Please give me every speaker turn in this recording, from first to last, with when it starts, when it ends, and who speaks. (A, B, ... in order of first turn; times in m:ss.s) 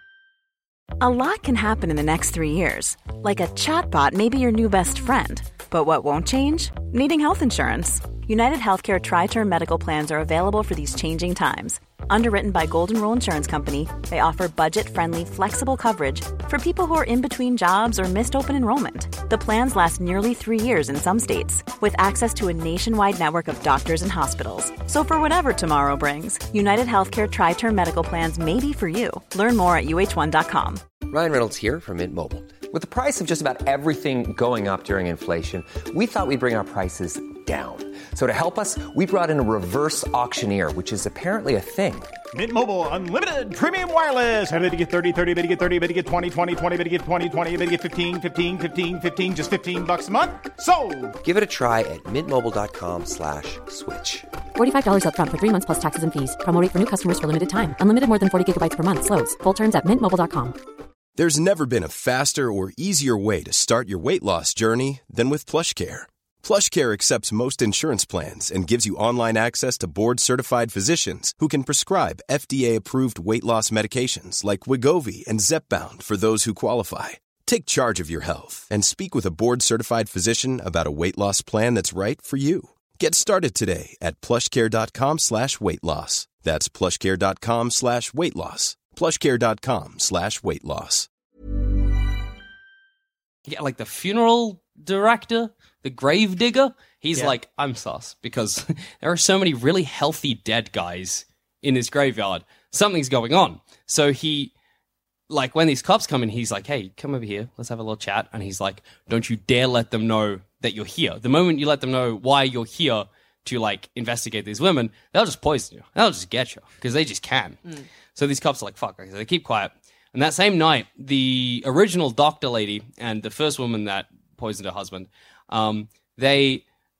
0:01.0-0:30.8 A
0:31.1-0:42.1 B
0:42.3-0:51.2 C
0:51.2-0:54.3 B
0:54.5-1:00.6 D
1:01.2-1:31.1 E
1:33.4-1:44.5 F
1:45.3-2:06.6 F